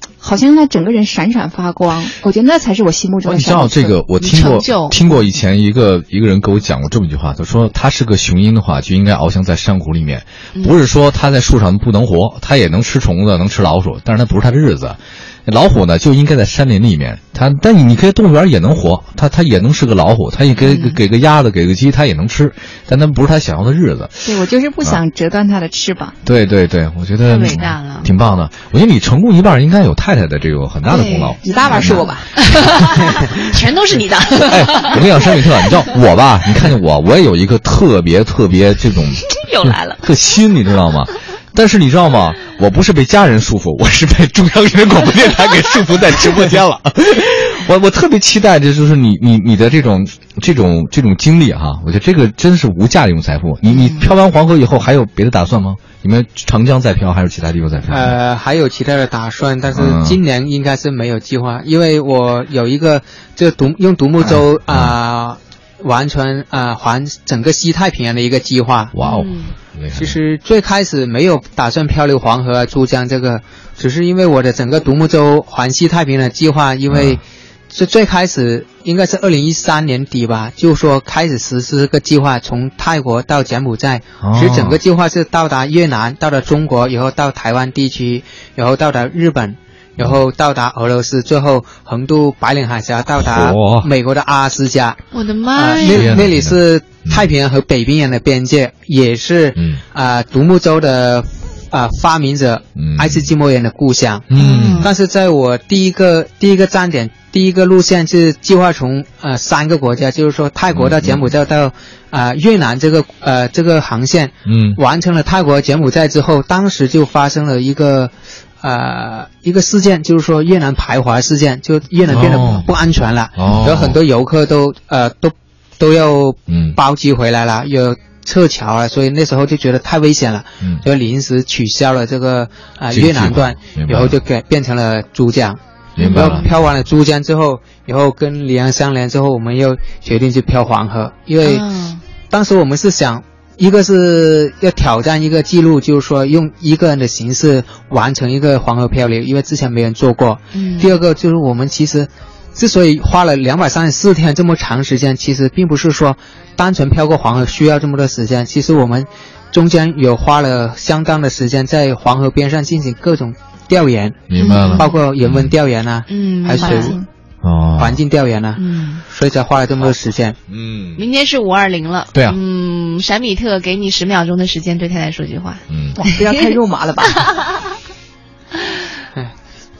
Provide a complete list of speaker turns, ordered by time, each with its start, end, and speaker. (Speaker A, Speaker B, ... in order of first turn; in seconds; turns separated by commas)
Speaker A: 0.2-4.0, Speaker B: 3.2-24.3, Speaker C: 4.2-5.0, Speaker C: 20.6-21.0, Speaker A: 24.2-26.2, Speaker B: 26.2-32.1, Speaker C: 27.3-28.1, Speaker C: 30.9-35.9, Speaker A: 31.4-32.4, Speaker B: 34.4-58.1, Speaker C: 39.3-40.0, Speaker C: 53.7-54.1, Speaker D: 57.9-68.9, Speaker B: 59.7-60.2, Speaker B: 64.3-65.0, Speaker B: 68.9-70.2, Speaker C: 69.0-69.5, Speaker D: 69.9-95.0, Speaker B: 76.9-77.2, Speaker B: 84.2-84.8, Speaker B: 93.2-93.9, Speaker C: 95.1-96.2, Speaker D: 95.5-141.7, Speaker B: 95.8-97.3, Speaker B: 99.6-99.8, Speaker B: 102.8-103.3, Speaker B: 104.3-104.9, Speaker C: 104.4-104.9, Speaker B: 110.7-111.3, Speaker B: 114.5-114.8, Speaker B: 122.1-122.7, Speaker B: 123.4-124.0, Speaker B: 126.5-126.8, Speaker B: 132.9-134.2, Speaker B: 136.0-136.5, Speaker C: 136.0-136.5, Speaker C: 141.4-142.0, Speaker D: 142.3-167.0, Speaker C: 150.5-150.9, Speaker B: 164.3-165.5, Speaker C: 164.4-165.0, Speaker C: 166.1-167.0, Speaker A: 166.6-167.1, Speaker B: 167.4-168.0, Speaker D: 167.8-170.4, Speaker C: 168.6-169.0, Speaker B: 170.5-171.1, Speaker C: 171.0-176.5, Speaker B: 175.7-176.0, Speaker A: 176.0-177.4